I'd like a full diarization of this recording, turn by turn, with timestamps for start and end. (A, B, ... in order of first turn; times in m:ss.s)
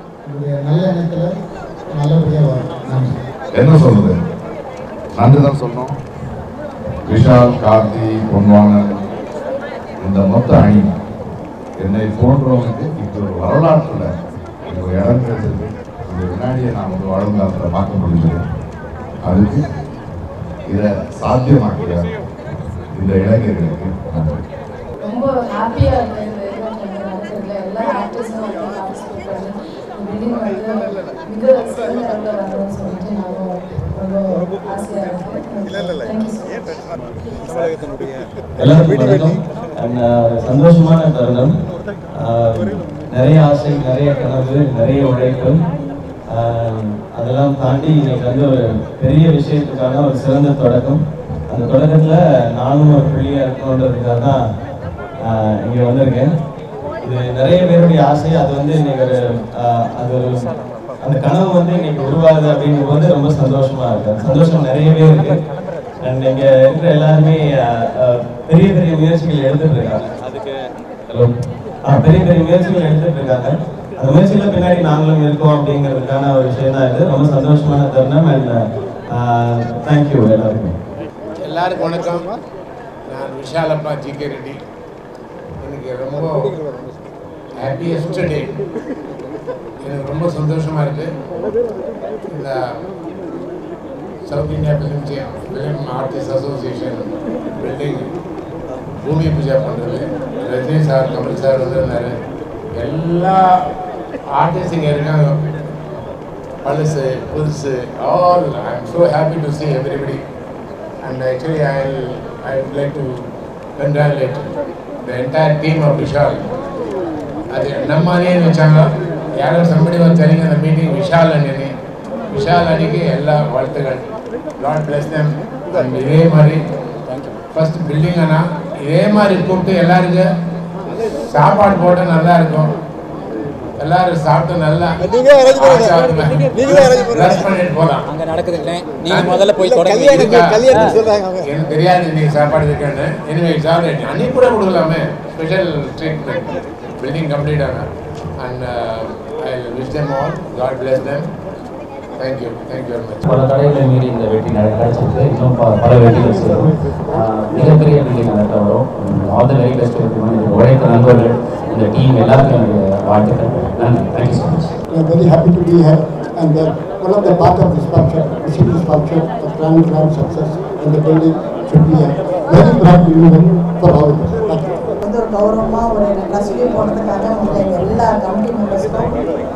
0:00.3-0:01.3 A
0:01.9-0:03.1 A
0:03.5-0:04.2 B
0:05.2-0:05.9 B
0:07.1-0:09.0 B
0:10.0-0:10.9 B
0:11.8-0:14.1 B
0:14.7-0:18.4 B
0:19.2-0:19.6 B
0:20.7-0:22.0 B
0:22.9-0:24.4 B
0:25.0-0:36.7 C
0:38.6-0:41.5 D
0:42.2-0:45.6 D
0:46.3-0:54.4 D
0:55.3-0:56.3 D
0:57.0-1:00.4 D
1:01.0-1:05.4 D
1:06.1-1:10.0 D
1:11.9-1:18.6 D
1:19.1-1:20.7 D
1:21.4-1:22.3 E
1:23.1-1:24.6 E
1:25.6-1:26.5 E
1:27.6-1:28.5 E
1:29.8-1:31.1 E
1:34.3-1:37.1 E
1:37.6-1:38.0 E
1:39.0-1:42.2 E
1:42.8-1:43.4 E
1:44.4-1:45.4 E
1:46.6-1:50.2 E
1:51.0-1:53.2 E
1:53.8-1:54.5 E
1:55.0-1:56.4 E
1:57.5-1:58.8 E
1:59.4-2:01.7 E
2:02.3-2:04.0 E
2:04.6-2:06.6 E
2:07.5-2:10.3 E
2:11.3-2:12.7 E
2:13.8-2:15.0 E
2:15.5-2:18.1 E
2:18.1-2:20.1 F
2:19.1-2:19.4 E
2:20.1-2:20.7 E
2:21.4-2:27.9 E
2:28.4-2:31.2 E
2:32.2-2:33.2 E
2:33.3-2:44.7 G
2:44.9-2:54.8 H
2:55.0-2:59.2 I